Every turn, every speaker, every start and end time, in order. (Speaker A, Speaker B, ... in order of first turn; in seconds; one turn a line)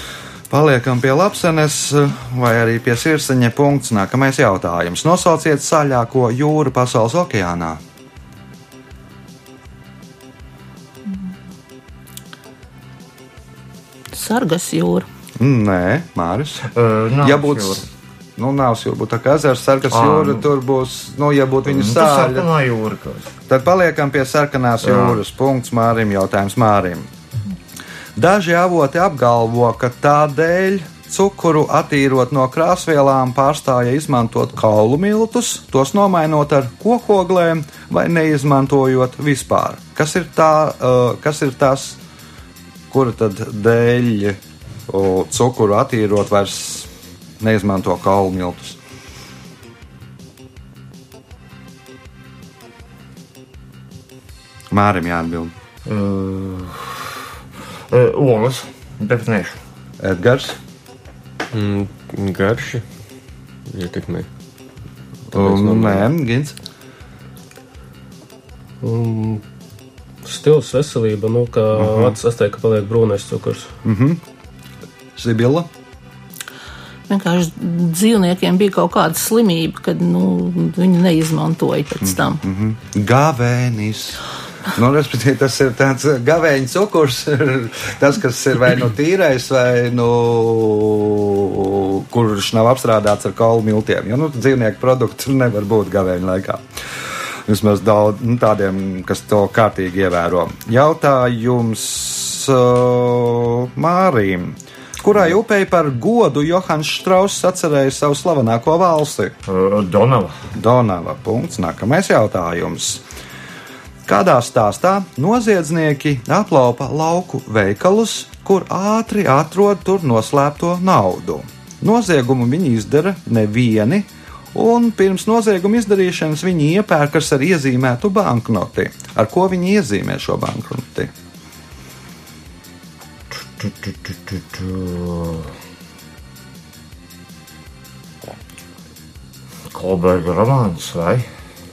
Speaker A: 0.5-7.8
Speaker B: 14.1-15.1
Speaker A: 15.4-16.6
Speaker C: 16.7-17.8
Speaker A: 17.2-22.5
Speaker C: 19.9-20.4
Speaker C: 21.7-23.3
Speaker A: 23.5-27.1
Speaker C: 24.8-25.2
Speaker A: 28.1-42.0
Speaker A: 42.9-46.9
Speaker A: 47.4-48.8
Speaker A: 54.7-55.5
Speaker C: 55.9-57.3
Speaker C: 57.9-59.6
Speaker A: 60.0-60.6
Speaker D: 61.5-62.8
Speaker D: 63.7-64.3
Speaker D: 65.3-66.1
Speaker A: 65.3-66.6
Speaker E: 68.8-69.4
Speaker E: 70.2-73.7
Speaker A: 71.8-72.2
Speaker A: 73.8-74.2
Speaker A: 75.2-75.7
Speaker B: 77.1-82.4
Speaker A: 82.0-96.6
Speaker A: 97.5-109.3
Speaker C: 109.5-110.3
Speaker A: 110.5-113.0
Speaker A: 114.1-131.1
Speaker C: 133.3-135.5
Speaker C: 139.7-141.2